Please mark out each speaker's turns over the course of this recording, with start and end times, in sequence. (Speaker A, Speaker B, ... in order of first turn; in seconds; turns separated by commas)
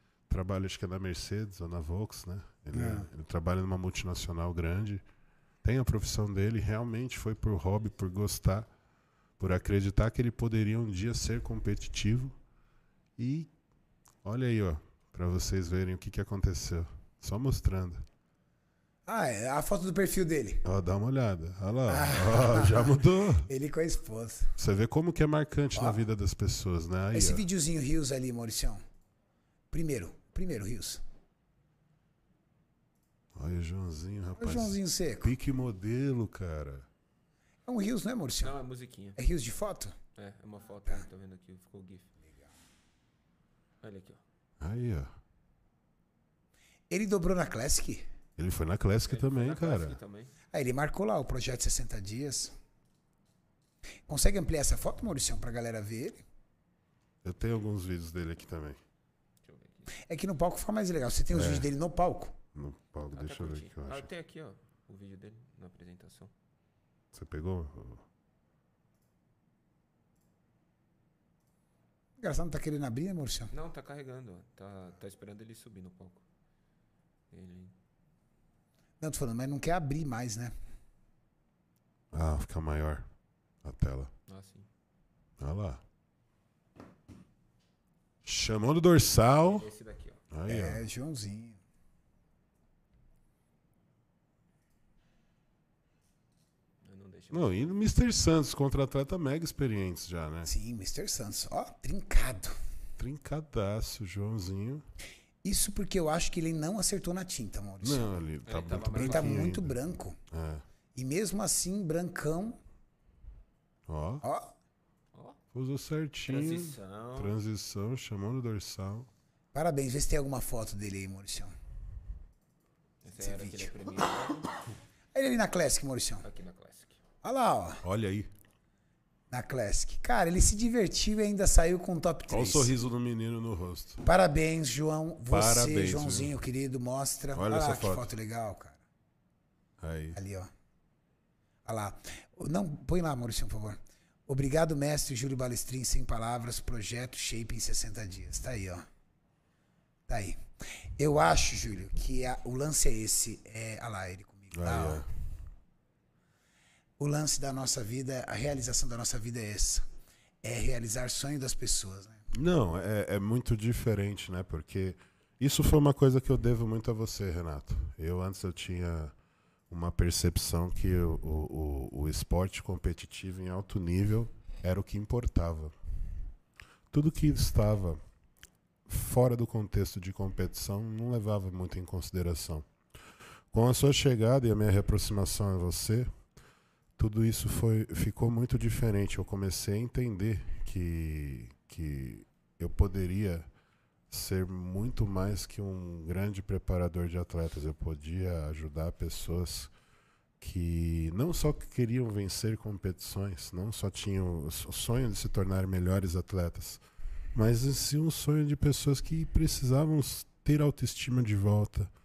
Speaker A: 0.3-5.0, Speaker B: 2.7-3.1, Speaker A: 5.6-8.7, Speaker A: 9.4-12.3, Speaker A: 13.2-13.5, Speaker A: 14.2-18.0, Speaker B: 19.1-20.6, Speaker A: 20.6-23.5, Speaker B: 21.9-24.5, Speaker A: 24.6-27.4, Speaker B: 27.1-28.8, Speaker B: 29.7-31.0, Speaker A: 33.4-36.9, Speaker B: 34.4-35.3, Speaker B: 37.7-38.5, Speaker C: 38.4-39.2, Speaker B: 39.2-40.0, Speaker C: 40.2-42.1, Speaker C: 43.8-44.2, Speaker A: 44.6-45.1, Speaker B: 46.9-48.0, Speaker A: 48.4-50.0, Speaker C: 49.0-50.3, Speaker B: 50.5-52.5, Speaker B: 54.1-56.2, Speaker A: 57.2-58.8, Speaker C: 59.4-59.9, Speaker B: 60.1-62.4, Speaker A: 61.3-61.7, Speaker A: 62.5-64.1, Speaker C: 63.1-66.3, Speaker A: 67.1-68.0, Speaker B: 72.2-73.5, Speaker C: 73.5-76.2, Speaker C: 77.3-77.7, Speaker B: 79.0-80.5, Speaker A: 82.1-83.0, Speaker A: 83.6-84.1, Speaker C: 84.3-84.7, Speaker A: 85.4-85.8, Speaker A: 88.2-89.7, Speaker C: 89.4-90.2, Speaker A: 90.3-90.8, Speaker B: 90.5-91.6, Speaker C: 96.8-97.7, Speaker A: 97.3-100.5, Speaker B: 100.5-102.6, Speaker A: 103.0-104.8, Speaker B: 105.4-108.2, Speaker A: 107.8-109.8, Speaker C: 108.5-109.5, Speaker B: 108.8-110.2, Speaker A: 110.3-110.6, Speaker B: 111.0-112.6, Speaker A: 113.9-114.2, Speaker B: 114.2-114.5, Speaker A: 115.5-119.1, Speaker C: 116.3-117.3, Speaker B: 119.5-121.5, Speaker C: 123.0-124.5, Speaker B: 123.2-123.7, Speaker B: 125.1-126.2, Speaker C: 126.2-127.0, Speaker B: 127.2-127.8, Speaker A: 127.8-128.3, Speaker B: 129.3-132.7, Speaker A: 132.3-134.0, Speaker B: 134.0-138.8, Speaker A: 135.3-136.4, Speaker A: 137.3-138.1, Speaker A: 139.8-140.2, Speaker B: 140.2-140.5, Speaker B: 141.7-148.8, Speaker B: 150.1-150.4, Speaker B: 151.0-155.1, Speaker A: 154.5-155.1, Speaker B: 157.0-159.8, Speaker B: 160.4-162.2, Speaker A: 162.3-169.1, Speaker A: 169.7-175.7, Speaker A: 176.9-178.0, Speaker A: 178.9-182.7, Speaker A: 183.5-186.1, Speaker A: 187.0-193.5, Speaker A: 194.1-199.7, Speaker A: 200.4-206.8, Speaker A: 207.3-211.9